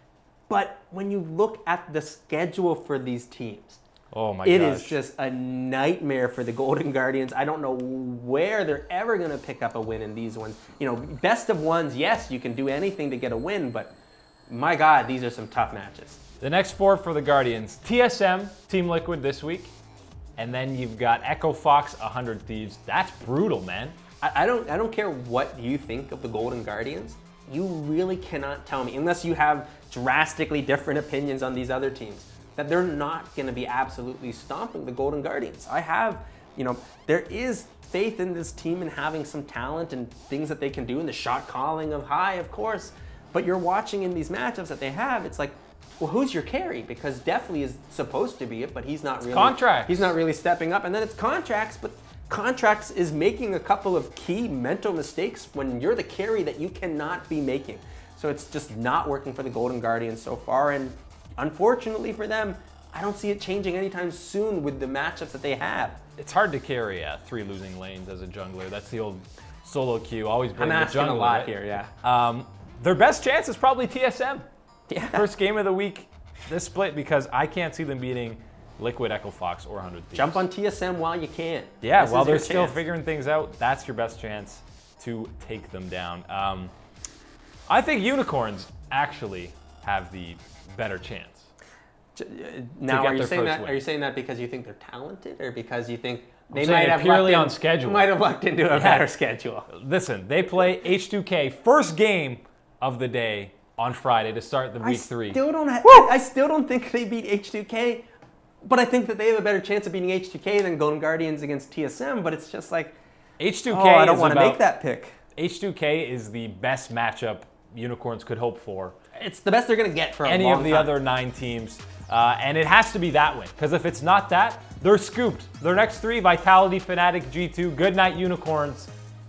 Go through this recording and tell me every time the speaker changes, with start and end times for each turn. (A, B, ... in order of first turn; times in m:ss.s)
0:00.5-0:03.8 A
0:04.1-0:05.0 B
0:04.4-0:13.9 A
0:14.5-0:16.2 A
0:16.4-0:19.7 B
0:20.4-0:24.0 B
0:24.2-1:06.0 A
0:49.3-0:50.1 B
1:06.2-1:14.4 B
1:10.6-1:11.9 A
1:14.9-1:15.3 A
1:15.1-1:20.4 B
1:20.1-1:22.8 A
1:21.8-1:26.7 B
1:27.7-1:31.5 B
1:32.2-1:39.7 A
1:32.9-1:33.8 B
1:36.5-1:38.1 B
1:38.7-1:39.1 B
1:39.7-1:45.4 B
1:44.8-1:48.0 A
1:48.6-1:53.0 A
1:53.4-1:54.6 B
1:53.7-1:55.2 A
1:55.3-1:59.0 B
1:59.2-2:00.9 A
2:00.2-2:08.9 B